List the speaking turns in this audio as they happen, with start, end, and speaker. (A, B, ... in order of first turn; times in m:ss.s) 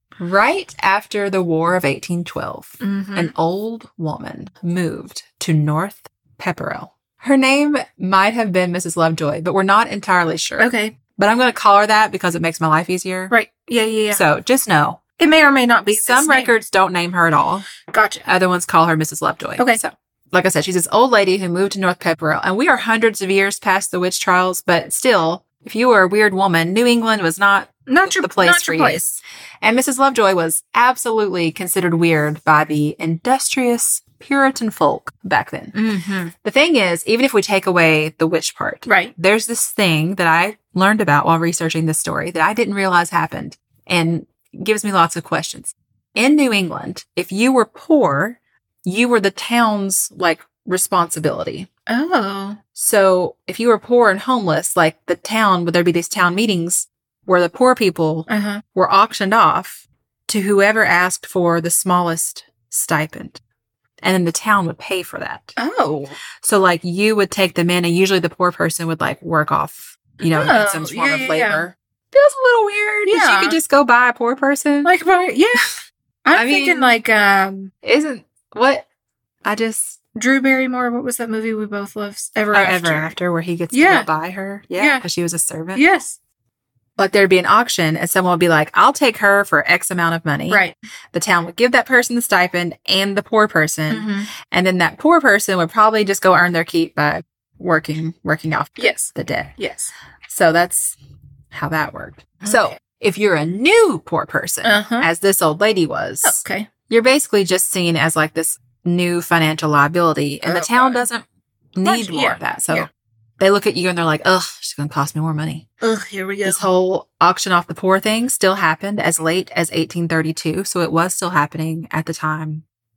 0:00.2-0:13.3 A
0:02.8-0:03.3 B
0:10.6-0:11.0 B
0:13.3-0:14.2 B
0:14.1-0:15.0 A
0:15.2-0:16.5 B
0:15.9-0:17.7 A
0:17.9-0:18.2 B
0:18.2-0:29.1 A
0:27.9-0:29.2 B
0:29.6-0:35.8 A
0:35.7-0:36.3 B
0:36.4-0:51.7 A
0:38.8-0:39.1 B
0:51.9-0:52.6 B
0:52.8-1:03.4 A
0:58.3-0:58.6 B
1:04.0-1:05.5 A
1:05.6-1:06.2 B
1:06.4-1:14.9 A
1:10.3-1:11.7 B
1:13.0-1:13.6 B
1:14.8-1:17.7 B
1:16.3-1:17.0 A
1:17.8-1:18.8 A
1:19.4-1:20.0 A
1:20.1-1:23.1 B
1:22.5-1:25.8 A
1:23.7-1:24.1 B
1:24.7-1:25.0 B
1:25.7-1:26.2 B
1:27.0-1:39.5 A
1:30.5-1:30.7 B
1:33.9-1:34.3 B
1:38.8-1:39.9 B
1:40.2-1:41.0 A
1:41.5-1:51.2 A
1:42.4-1:42.8 B
1:44.6-1:45.1 B
1:46.2-1:46.7 B
1:50.4-1:51.0 B
1:51.8-1:52.9 A
1:51.8-1:52.9 B
1:53.4-1:55.7 A
1:55.8-1:56.6 B
1:56.4-2:02.6 A